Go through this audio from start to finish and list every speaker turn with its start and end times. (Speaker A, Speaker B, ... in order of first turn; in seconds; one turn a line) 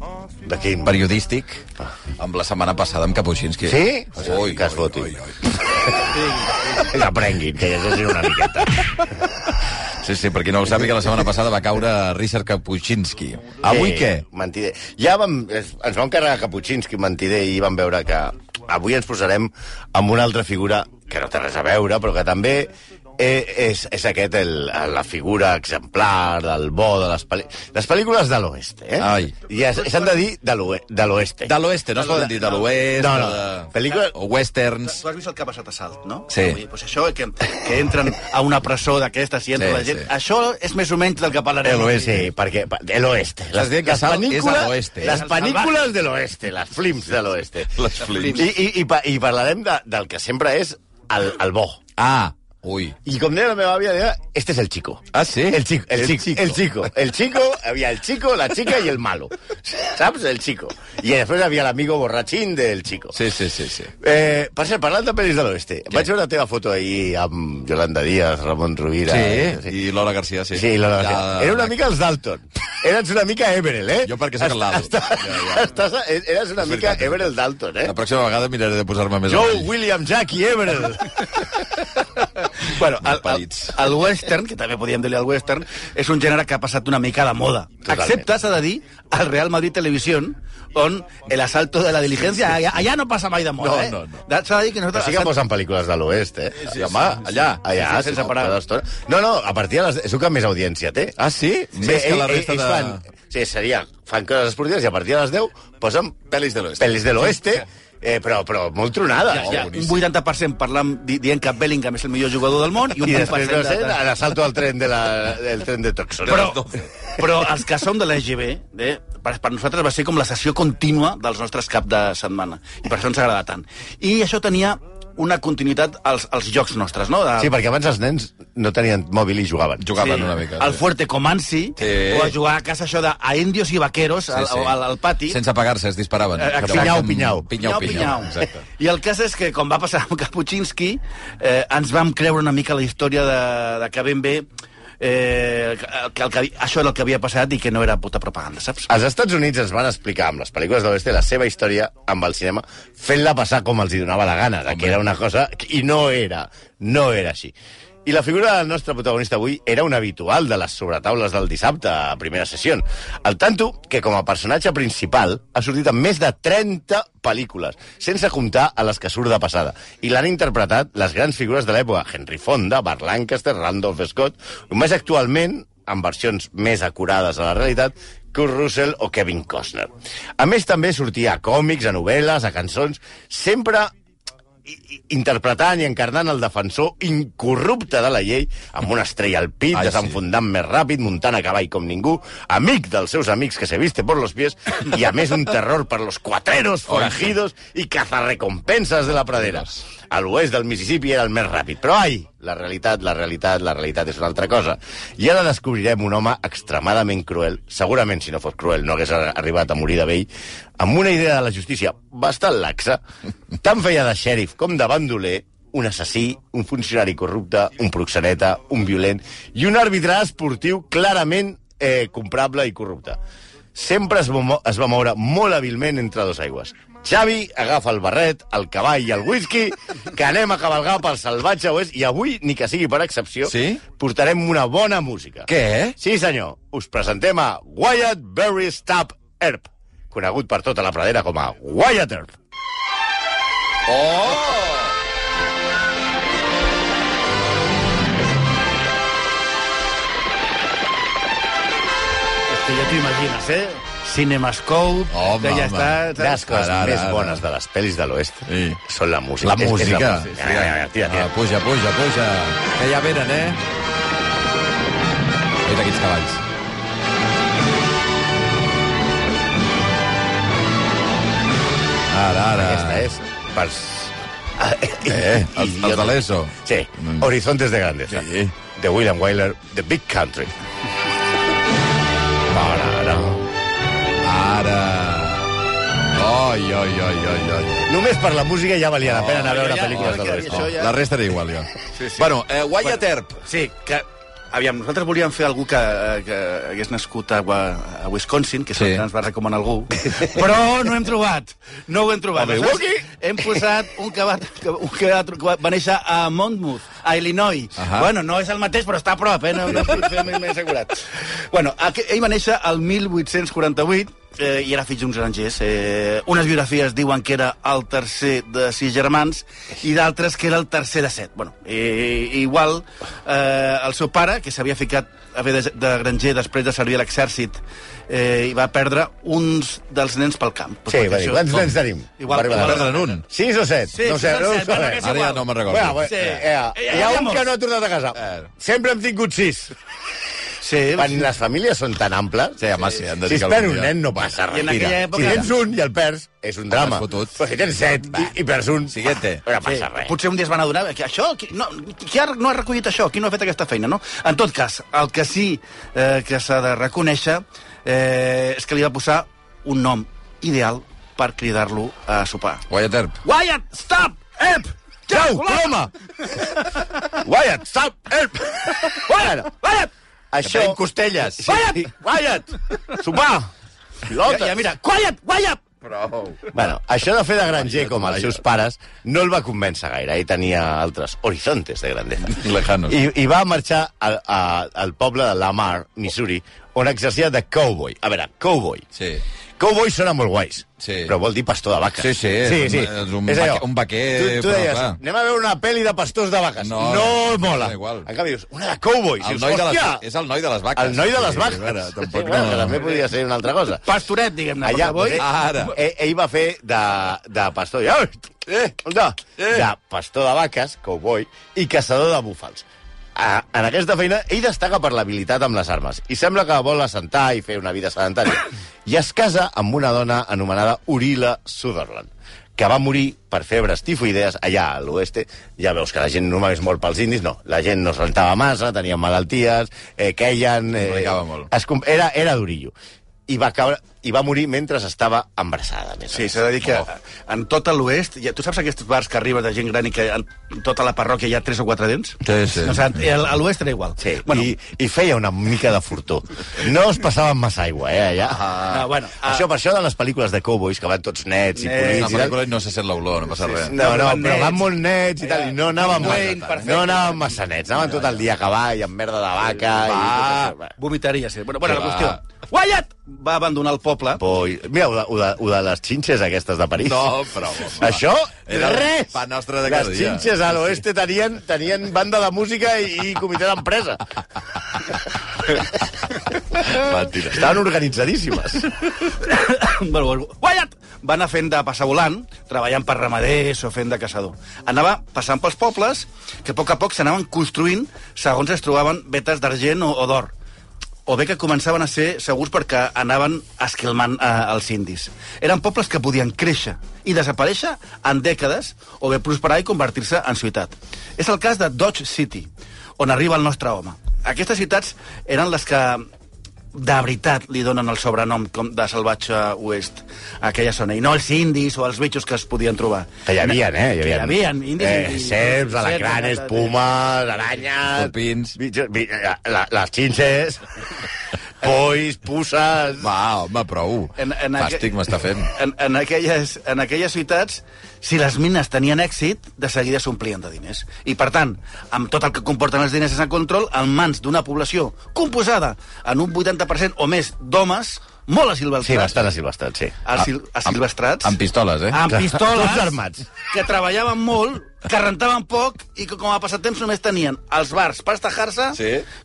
Speaker A: 0.4-1.0
Speaker B: 0.8-1.6
Speaker B: 2.2-6.1
Speaker A: 3.6-5.1
Speaker C: 6.1-6.9
Speaker A: 6.8-9.0
Speaker B: 10.0-14.2
Speaker A: 13.6-31.5
Speaker B: 29.0-29.4
Speaker C: 29.6-30.2
Speaker B: 31.4-35.0
Speaker C: 31.9-32.8
Speaker A: 33.0-34.1
Speaker C: 34.9-42.3
Speaker B: 36.3-36.6
Speaker B: 39.6-40.1
Speaker A: 41.6-51.8
Speaker B: 41.7-42.1
Speaker B: 43.5-45.2
Speaker C: 45.0-45.9
Speaker B: 47.7-48.5
Speaker C: 48.0-48.5
Speaker B: 52.0-53.0
Speaker A: 53.0-63.1
Speaker B: 55.1-56.6
Speaker B: 63.1-63.9
Speaker A: 64.0-69.8
Speaker B: 69.1-71.7
Speaker A: 70.5-77.9
Speaker B: 74.0-75.7
Speaker B: 76.6-77.2
Speaker B: 77.8-79.7
Speaker A: 79.3-81.5
Speaker C: 82.6-95.3
Speaker B: 83.0-83.9
Speaker A: 87.9-88.3
Speaker B: 93.6-94.2
Speaker A: 94.9-101.2
Speaker B: 96.7-97.6
Speaker C: 97.7-98.6
Speaker B: 101.2-103.0
Speaker A: 101.8-109.6
Speaker B: 106.3-107.4
Speaker C: 109.3-114.0
Speaker B: 109.3-110.0
Speaker A: 113.0-116.5
Speaker B: 116.2-116.9
Speaker C: 116.3-116.6
Speaker C: 117.2-127.5
Speaker A: 127.4-129.9
Speaker B: 129.8-130.8
Speaker C: 129.9-135.4
Speaker B: 131.8-132.4
Speaker B: 134.3-138.6
Speaker C: 136.4-144.5
Speaker A: 136.6-137.5
Speaker C: 145.0-148.9
Speaker A: 148.9-157.5
Speaker B: 154.7-155.0
Speaker A: 158.1-183.9
Speaker A: 184.7-213.0
Speaker B: 189.7-190.2
Speaker B: 196.9-197.3
Speaker A: 213.6-223.2
Speaker A: 223.8-242.3
Speaker B: 233.4-233.8
Speaker B: 235.5-236.0
Speaker B: 243.9-244.9
Speaker C: 252.5-256.4
Speaker B: 255.1-257.4
Speaker A: 256.2-261.3
Speaker B: 258.5-258.8
Speaker B: 259.4-263.6
Speaker B: 265.6-266.4
Speaker B: 272.1-273.1
Speaker A: 272.6-280.5
Speaker B: 275.1-277.3
Speaker B: 278.1-278.5
Speaker A: 282.5-283.4
Speaker B: 284.2-285.5
Speaker B: 286.1-287.9
Speaker A: 287.9-290.7
Speaker B: 289.0-293.4
Speaker C: 289.4-290.9
Speaker C: 291.9-292.3
Speaker C: 292.8-331.7
Speaker B: 298.8-299.0
Speaker B: 302.4-302.8
Speaker A: 302.4-303.0
Speaker B: 307.8-308.1
Speaker B: 309.7-310.1
Speaker A: 309.9-310.2
Speaker A: 330.9-335.1
Speaker C: 332.2-333.1
Speaker B: 332.3-333.2
Speaker C: 333.9-337.4
Speaker B: 335.0-336.3
Speaker A: 335.7-339.8
Speaker B: 338.2-338.5
Speaker C: 340.6-341.3
Speaker A: 340.9-342.7
Speaker B: 342.6-345.5
Speaker A: 343.2-350.1
Speaker C: 344.5-345.5
Speaker B: 346.8-347.4
Speaker B: 348.9-349.4
Speaker C: 349.6-362.6
Speaker B: 362.7-363.2
Speaker C: 363.2-367.0
Speaker A: 365.1-365.9
Speaker A: 367.1-369.5
Speaker C: 368.9-369.9
Speaker A: 370.3-373.5
Speaker B: 370.4-371.6
Speaker C: 371.4-371.9
Speaker A: 374.1-374.6
Speaker C: 374.2-375.6
Speaker B: 375.8-376.5
Speaker A: 376.5-388.9
Speaker B: 377.6-378.4
Speaker B: 382.3-383.0
Speaker B: 388.9-389.2
Speaker A: 389.6-400.0
Speaker B: 390.8-391.2
Speaker B: 392.0-395.0
Speaker B: 396.6-398.1
Speaker B: 399.2-402.9
Speaker A: 400.8-403.9
Speaker C: 403.7-405.2
Speaker A: 404.6-432.7
Speaker B: 405.1-405.8
Speaker B: 408.5-408.8
Speaker B: 409.4-409.7
Speaker B: 430.8-431.5
Speaker A: 433.3-436.4
Speaker C: 436.1-444.5
Speaker B: 442.2-443.0
Speaker A: 444.0-448.5
Speaker B: 448.3-448.9
Speaker C: 448.7-449.4
Speaker A: 449.2-452.4
Speaker C: 451.6-452.3
Speaker B: 451.9-453.8
Speaker C: 453.4-454.7
Speaker A: 453.6-460.8
Speaker C: 455.2-457.4
Speaker B: 455.8-456.8
Speaker B: 459.9-460.6
Speaker C: 460.8-464.2
Speaker B: 461.6-462.2
Speaker A: 464.2-467.1
Speaker B: 466.8-470.8
Speaker A: 467.8-474.0
Speaker B: 476.6-477.5
Speaker A: 477.2-478.8
Speaker C: 478.9-490.3
Speaker C: 491.1-506.1
Speaker C: 506.7-516.8
Speaker A: 513.2-520.7
Speaker B: 517.9-518.5
Speaker A: 521.6-523.1
Speaker B: 523.0-525.5
Speaker C: 524.2-524.9
Speaker C: 525.5-539.2
Speaker A: 538.8-540.0
Speaker C: 540.0-541.4
Speaker B: 541.2-542.0
Speaker C: 541.9-543.0
Speaker A: 542.1-543.2
Speaker C: 543.5-548.8
Speaker B: 548.7-549.1